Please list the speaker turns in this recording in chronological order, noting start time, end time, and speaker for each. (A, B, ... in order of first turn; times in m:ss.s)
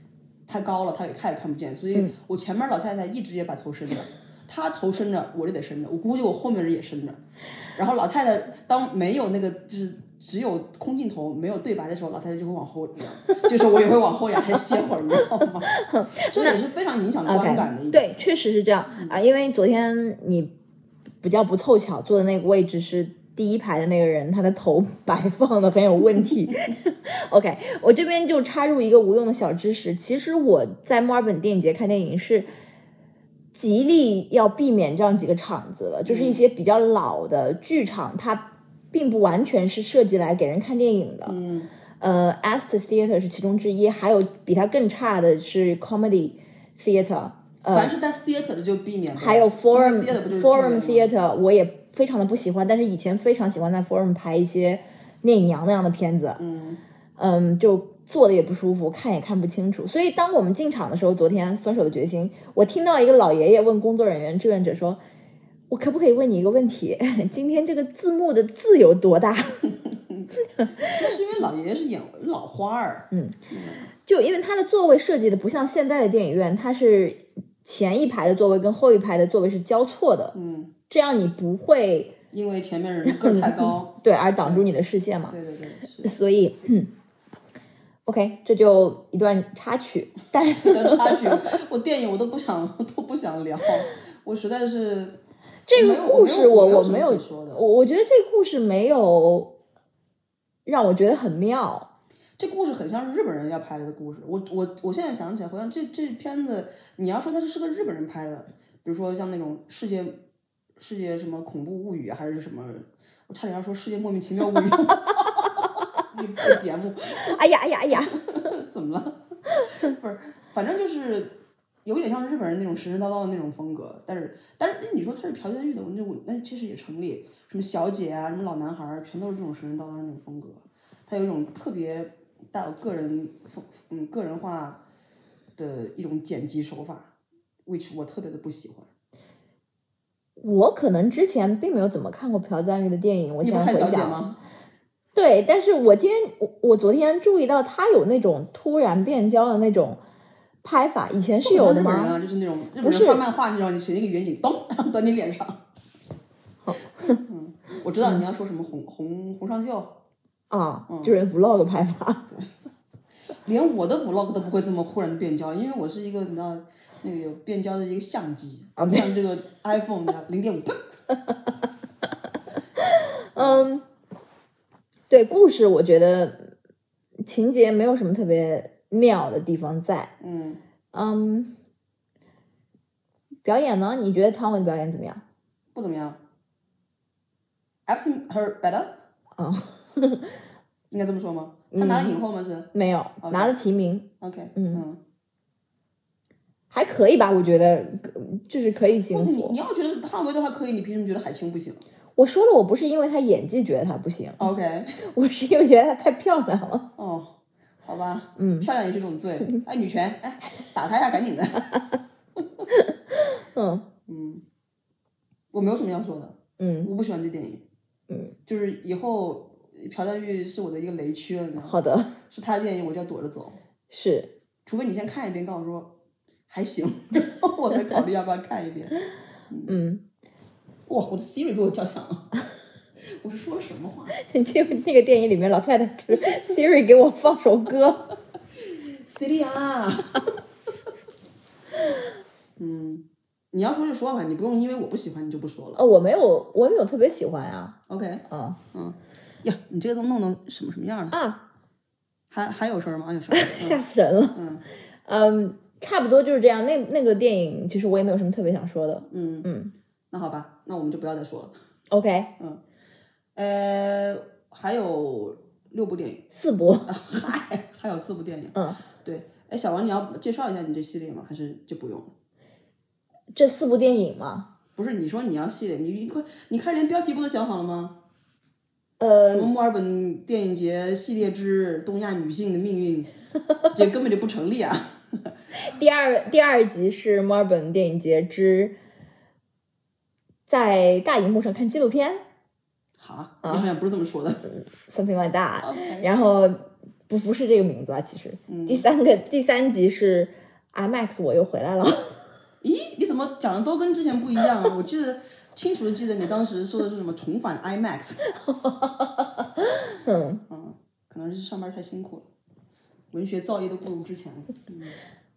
0:00.5-0:07.2 A
0:07.7-0:18.1 A
0:14.5-0:14.8 B
0:15.7-0:16.6 B
0:17.3-0:20.5 B
0:21.2-0:32.5 B
0:33.5-0:41.4 B
0:36.0-0:36.4 A
0:41.3-0:41.7 A
0:42.0-0:47.9 B
0:47.7-0:51.1 A
0:49.2-0:56.4 B
0:56.4-0:56.8 A
0:57.2-1:05.0 B
1:05.7-1:09.7 B
1:09.9-1:13.9 A
1:10.6-1:10.9 B
1:13.1-1:13.4 B
1:14.0-1:20.4 B
1:20.3-1:20.7 A
1:20.9-1:22.2 B
1:22.3-1:24.7 A
1:23.1-1:25.4 B
1:25.3-1:26.1 A
1:26.0-1:26.9 B
1:28.1-1:31.4 B
1:30.4-1:35.2 A
1:35.7-1:39.6 B
1:35.7-1:37.6 A
1:40.7-1:41.9 B
1:42.4-1:50.2 A
1:50.8-1:57.4 A
1:57.2-1:58.2 B
1:58.1-2:14.8 A
2:15.6-2:17.1 A
2:17.6-2:18.9 A
2:20.4-2:24.2 B
2:23.4-2:24.4 A
2:25.2-2:30.0 B
2:30.6-2:32.2 B
2:31.4-2:35.6 A
2:32.8-2:33.2 B
2:36.6-2:37.2 B
2:37.1-2:40.0 A
2:40.5-2:42.3 B
2:40.9-2:41.2 A
2:43.4-2:50.8 A
2:48.8-2:49.1 B
2:52.8-2:53.8 B
2:53.4-2:53.7 A
2:55.1-2:56.5 B
2:57.2-3:00.1 B
3:00.2-3:00.6 A
3:00.9-3:01.5 B
3:03.4-3:05.2 B
3:05.7-3:06.2 A
3:07.9-3:09.0 A
3:09.4-3:10.4 B
3:10.9-3:12.7 A
3:11.7-3:12.2 B
3:12.7-3:14.8 B
3:13.2-3:13.5 A
3:14.2-3:15.0 A
3:16.7-3:19.6 B
3:19.1-3:21.8 A
3:22.2-3:26.9 B
3:24.4-3:25.0 A
3:27.0-3:31.9 A
3:28.4-3:28.7 B
3:32.7-3:33.9 B
3:34.1-3:34.4 A
3:35.5-3:37.6 A
3:36.6-3:36.9 B
3:38.1-3:38.4 B
3:38.5-3:41.8 A
3:41.6-3:42.2 B
3:42.3-3:43.6 A
3:43.9-3:44.3 B
3:44.7-3:46.0 A
3:46.5-3:49.0 A
3:49.5-3:49.8 A
3:49.7-3:50.0 B
3:50.9-3:52.4 A
3:53.2-3:54.2 A
3:54.2-3:58.1 B
3:59.0-4:00.3 A
4:02.6-4:05.8 A
4:05.8-4:07.8 B
4:07.9-4:11.2 A
4:08.3-4:08.6 B
4:11.1-4:11.4 B
4:12.3-4:14.6 A
4:13.3-4:14.4 B
4:15.0-4:19.7 B
4:19.1-4:19.5 A
4:20.1-4:21.5 A
4:21.9-4:22.3 B
4:23.4-4:26.3 A
4:26.3-4:26.9 B
4:26.9-4:32.1 A
4:33.3-4:34.5 B
4:34.8-4:38.0 A
4:39.0-4:39.5 B
4:39.3-4:43.1 A
4:43.7-4:45.3 A
4:45.5-4:48.8 B
4:50.5-4:52.2 B
4:53.0-4:54.5 A
4:54.5-5:02.2 B
4:55.6-4:56.1 A
4:58.5-4:58.9 A
5:02.6-5:08.3 A
5:08.4-5:10.4 B
5:10.5-5:12.3 A
5:13.1-5:15.0 A